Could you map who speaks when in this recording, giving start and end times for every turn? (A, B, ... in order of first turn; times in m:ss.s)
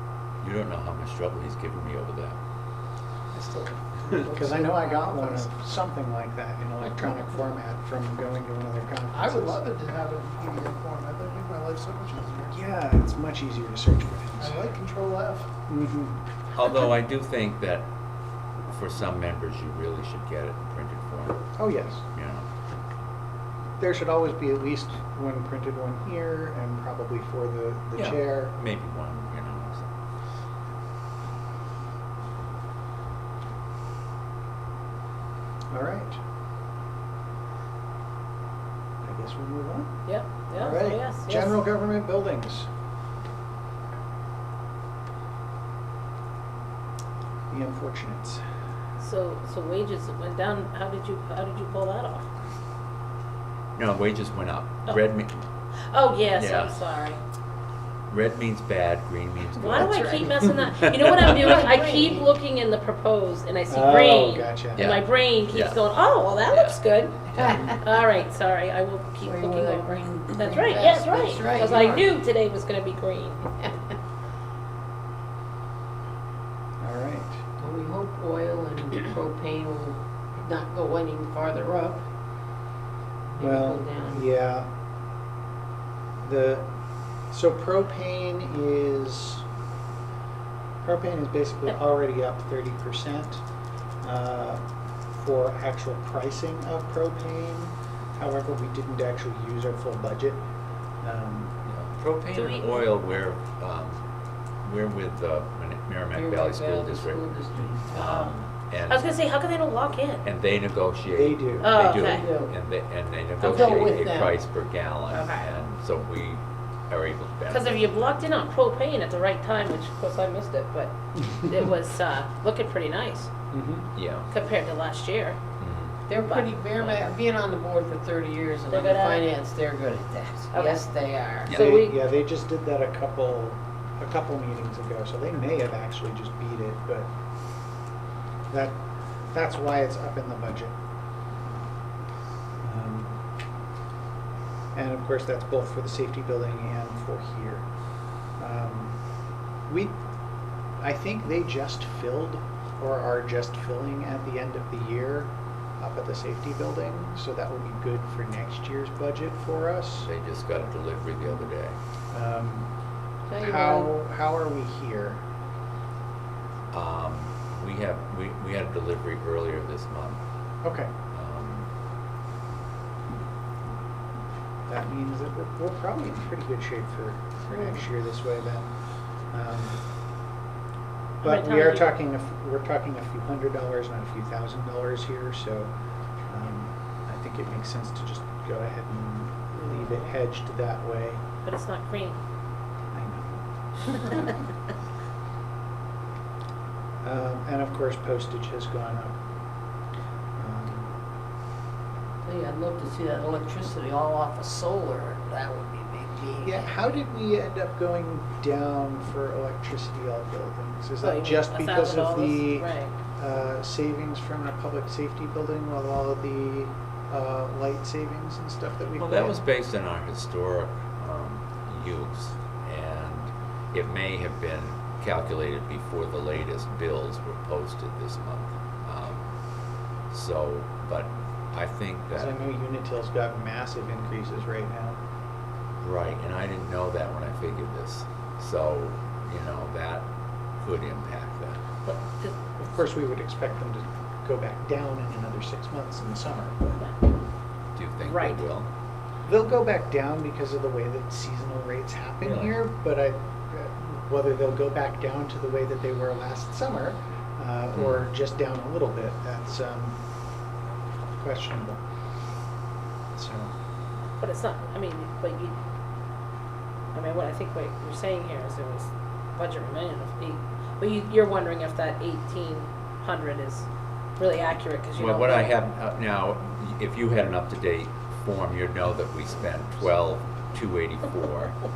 0:00.4-0:02.4 A
0:04.2-0:05.5 B
0:04.2-0:09.6 C
0:09.1-0:12.6 B
0:12.5-0:14.6 C
0:14.4-0:15.5 B
0:15.7-0:16.8 C
0:16.5-0:17.9 A
0:18.7-0:21.5 A
0:21.6-0:22.0 C
0:22.1-0:22.4 A
0:23.8-0:28.5 C
0:28.0-0:29.9 A
0:35.7-0:36.2 C
0:39.0-0:40.0 C
0:40.0-0:41.6 D
0:40.5-0:42.7 C
0:47.5-0:48.4 C
0:49.0-0:52.3 D
0:53.8-0:55.4 A
0:55.9-0:57.2 D
0:56.3-0:56.8 A
0:58.1-1:01.6 A
0:59.6-1:13.6 D
1:00.0-1:02.3 E
1:03.7-1:04.9 C
1:04.7-1:05.8 A
1:06.4-1:06.8 A
1:07.3-1:07.8 E
1:09.2-1:12.1 E
1:16.8-1:17.4 C
1:17.6-1:22.0 E
1:23.3-1:24.3 E
1:23.4-1:24.7 C
1:26.2-1:26.6 C
1:27.3-1:29.4 C
1:30.8-1:33.4 C
1:34.0-1:34.6 C
1:35.1-1:40.4 C
1:41.0-1:41.5 C
1:41.6-1:44.0 A
1:42.3-1:42.9 D
1:44.6-1:47.3 A
1:46.1-1:48.4 E
1:47.9-1:49.1 A
1:48.8-1:50.2 D
1:50.2-1:57.8 A
1:51.1-1:51.7 C
1:51.6-1:52.3 D
1:52.0-1:52.5 E
1:53.4-1:54.4 E
1:55.1-1:55.5 D
1:57.5-2:03.3 D
2:03.5-2:03.9 C
2:03.9-2:04.3 A
2:04.3-2:05.4 D
2:05.6-2:06.0 A
2:06.1-2:11.5 E
2:06.1-2:07.1 D
2:08.7-2:09.2 D
2:10.5-2:10.9 D
2:11.4-2:11.8 A
2:11.4-2:17.1 C
2:11.6-2:12.0 D
2:18.5-2:18.8 C
2:19.3-2:20.7 C
2:22.6-2:23.1 C
2:24.7-2:27.7 C
2:28.4-2:29.0 C
2:29.7-2:30.0 C
2:30.8-2:40.1 C
2:40.0-2:41.8 A
2:42.1-2:42.7 C
2:43.3-2:43.9 E
2:43.4-2:45.2 C
2:46.7-2:50.2 A
2:50.6-2:50.9 C
2:51.1-2:51.7 A
2:54.7-2:58.7 C
2:59.3-2:59.8 C
3:01.2-3:01.9 D
3:01.2-3:05.7 C
3:06.3-3:11.2 C
3:09.6-3:10.1 D
3:11.4-3:12.2 D
3:12.9-3:14.2 C
3:17.0-3:19.2 C
3:20.4-3:21.0 C
3:22.2-3:26.7 E
3:26.4-3:39.4 C
3:31.0-3:32.9 D
3:39.0-3:49.2 A
3:50.1-3:52.4 A
3:52.1-3:55.0 C
3:55.8-4:00.1 A
4:00.6-4:01.6 A
4:01.8-4:02.3 D
4:02.6-4:06.8 C
4:07.7-4:08.7 A
4:08.0-4:08.4 D
4:09.2-4:20.0 C
4:12.2-4:12.6 A
4:17.7-4:18.1 A
4:21.2-4:21.8 C
4:23.1-4:23.5 C
4:24.2-4:25.6 D
4:26.9-4:33.7 D
4:34.2-4:35.5 D
4:35.0-4:41.5 A